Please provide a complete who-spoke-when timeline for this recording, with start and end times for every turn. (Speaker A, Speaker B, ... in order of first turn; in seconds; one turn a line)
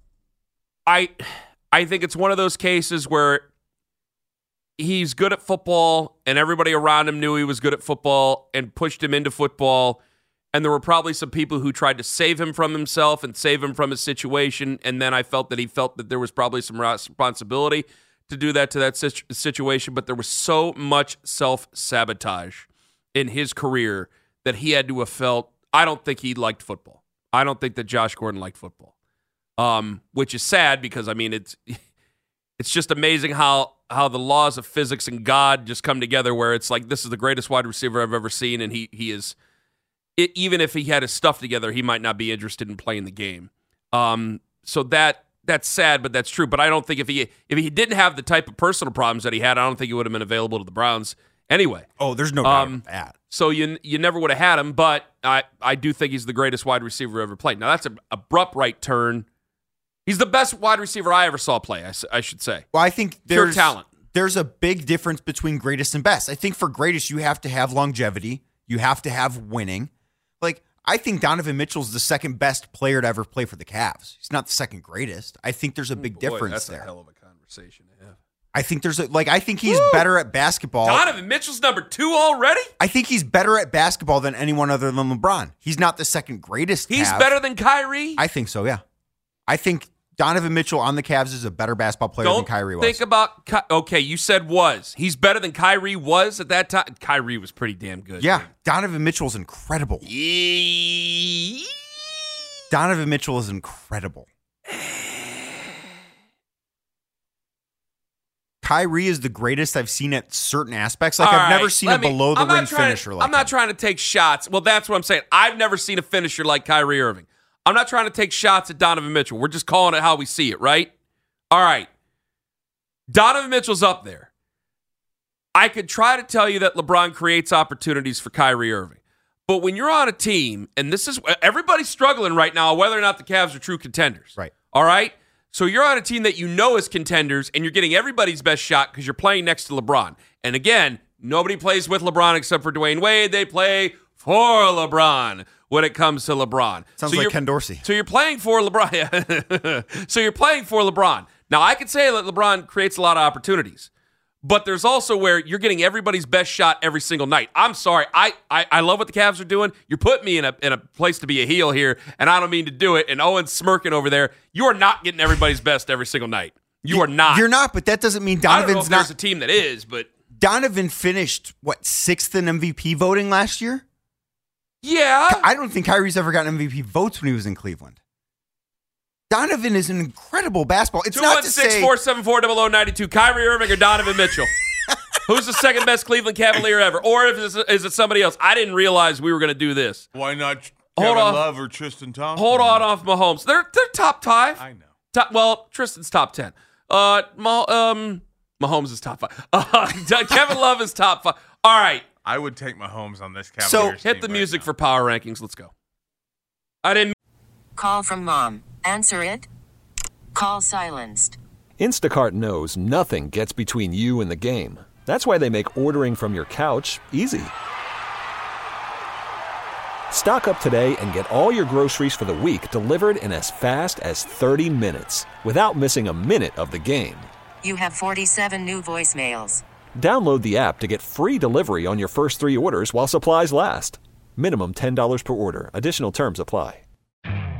Speaker A: 0.9-3.5
Speaker A: 4.8-10.0
Speaker A: 10.5-28.9
Speaker A: 29.6-31.8
Speaker A: 32.6-39.4
Speaker A: 40.2-51.9
Speaker B: 52.0-53.1
Speaker A: 52.4-59.3
Speaker A: 60.1-62.7
Speaker B: 62.7-69.9
Speaker A: 63.3-63.9
Speaker B: 70.4-76.9
Speaker A: 76.0-78.2
Speaker B: 78.5-81.1
Speaker A: 79.7-80.1
Speaker A: 80.8-82.7
Speaker B: 82.8-87.4
Speaker A: 86.9-88.2
Speaker B: 88.2-88.8
Speaker B: 89.5-93.0
Speaker A: 92.2-98.5
Speaker B: 98.2-100.1
Speaker A: 100.0-101.7
Speaker B: 102.7-104.3
Speaker A: 104.8-105.4
Speaker B: 108.6-113.5
Speaker A: 111.2-120.9
Speaker A: 121.5-121.9
Speaker A: 123.1-124.3
Speaker A: 125.5-153.9
Speaker B: 147.0-147.8
Speaker A: 154.4-167.5
Speaker B: 166.9-169.1
Speaker A: 168.4-170.1
Speaker B: 170.4-173.8
Speaker A: 174.8-175.5
Speaker B: 175.3-178.0
Speaker B: 179.3-181.9
Speaker A: 181.1-184.5
Speaker A: 185.3-190.1
Speaker C: 190.1-192.9
Speaker A: 191.0-191.4
Speaker A: 192.4-202.0
Speaker C: 194.6-194.9
Speaker C: 202.2-204.7
Speaker B: 203.6-204.0
Speaker A: 204.0-205.7
Speaker A: 206.8-207.1
Speaker D: 207.8-209.5
Speaker D: 210.3-211.4
Speaker E: 211.8-217.5
Speaker E: 220.1-227.3
Speaker D: 227.6-229.6
Speaker E: 230.0-236.8